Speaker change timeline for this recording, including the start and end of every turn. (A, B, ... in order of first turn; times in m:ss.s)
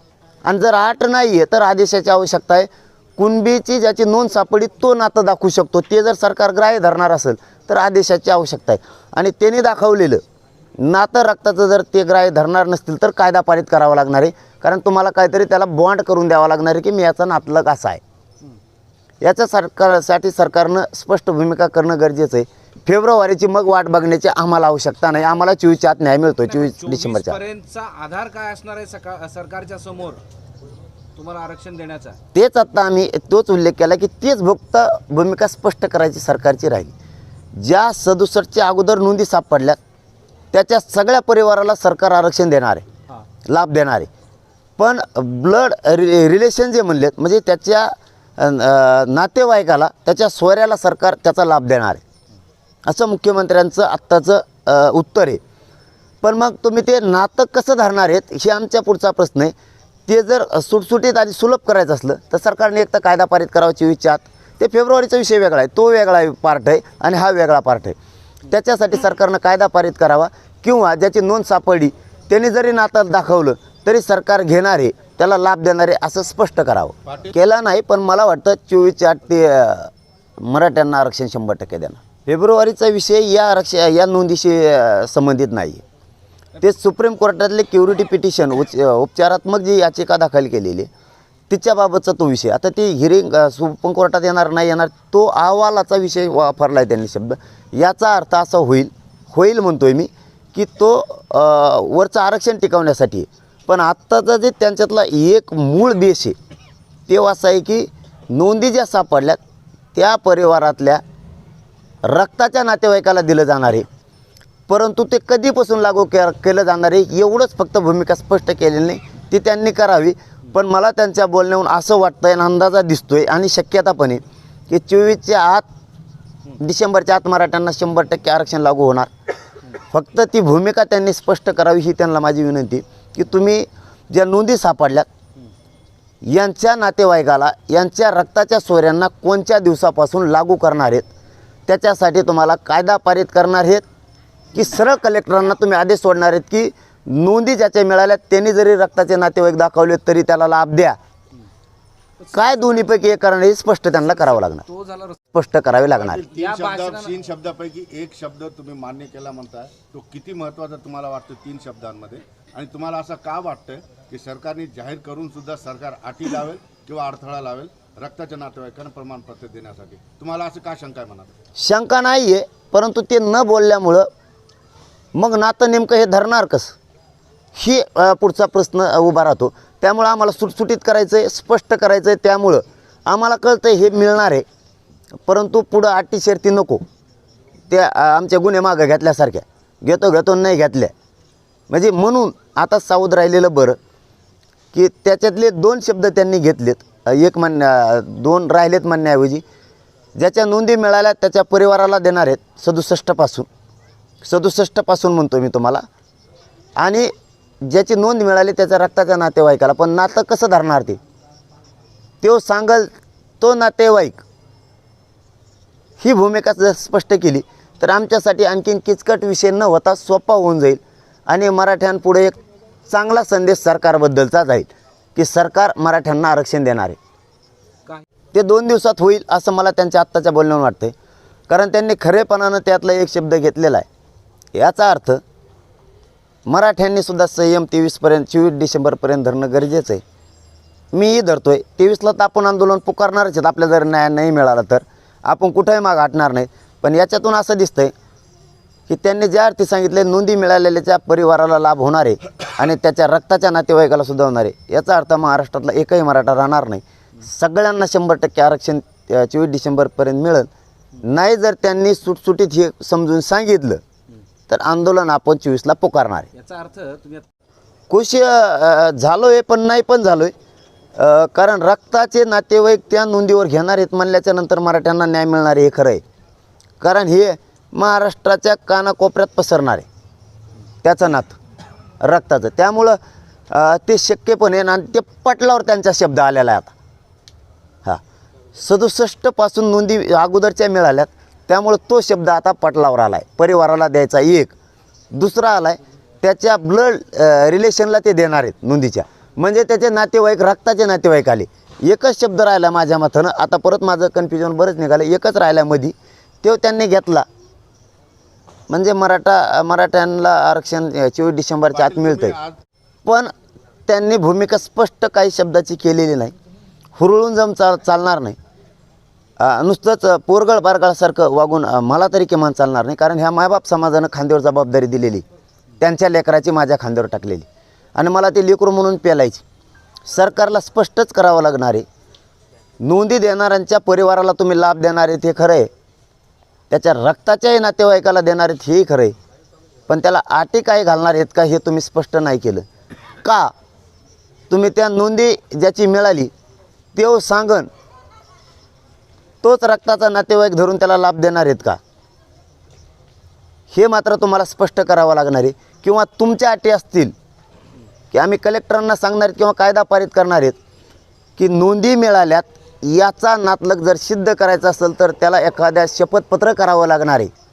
0:00.4-0:10.2 A
0:10.8-0:18.0 A
0:19.2-0:27.4 A
0:26.4-0:30.2 B
0:31.2-0:32.2 B
0:32.3-0:36.9 A
0:37.5-0:39.8 A
0:40.5-0:42.8 A
0:43.4-0:44.1 A
0:44.8-0:52.0 A
0:52.8-0:55.4 A
0:56.2-0:59.5 A
1:00.1-1:08.0 A
1:08.5-1:25.8 A
1:26.6-1:30.9 A
1:31.5-1:46.4 A
1:47.1-1:49.4 A
1:49.9-1:51.0 A
1:52.0-1:53.9 A
1:54.7-2:05.6 A
2:06.6-2:09.1 A
2:09.9-2:15.1 A
2:16.2-2:21.1 A
2:21.7-2:23.8 A
2:24.5-2:31.0 A
2:32.2-2:32.9 B
2:32.3-2:34.6 A
2:34.3-2:35.2 B
2:35.3-2:36.2 A
2:36.0-2:51.3 C
2:36.3-2:37.2 B
2:51.6-2:54.0 A
2:55.1-2:56.7 A
2:57.5-3:04.4 A
3:05.2-3:06.8 A
3:07.7-3:10.9 A
3:11.7-3:13.8 A
3:14.7-3:19.4 A
3:20.2-3:23.5 A
3:24.2-3:25.8 A
3:26.8-3:27.1 A
3:27.6-3:31.0 A
3:32.2-3:34.2 A
3:36.0-3:42.4 A
3:42.9-3:47.0 A
3:48.3-3:50.9 A
3:51.5-3:53.8 A
3:54.5-3:55.2 A
3:56.4-4:00.0 A
4:00.9-4:07.9 A
4:08.9-4:20.5 A
4:21.0-4:23.8 A
4:24.5-4:26.3 A
4:26.3-4:27.3 B
4:27.9-4:30.3 A
4:31.0-4:36.0 A
4:36.8-4:39.8 A
4:40.8-4:41.4 A
4:42.0-4:43.0 A
4:43.5-4:46.7 A
4:48.5-4:54.5 A
4:55.1-5:07.2 A
5:08.7-5:12.4 A
5:11.7-5:12.6 C
5:13.0-5:13.3 A
5:13.9-5:16.3 A
5:17.0-5:18.4 A
5:19.4-5:25.2 A
5:25.8-5:29.4 A
5:30.0-5:31.8 A
5:32.8-5:35.7 A
5:36.7-5:39.1 A
5:39.9-5:42.6 A
5:43.2-5:43.5 A
5:44.5-5:46.3 A
5:46.9-5:47.7 A
5:49.4-5:51.8 A
5:53.7-5:57.1 A
5:58.1-6:00.6 A
6:01.4-6:07.3 A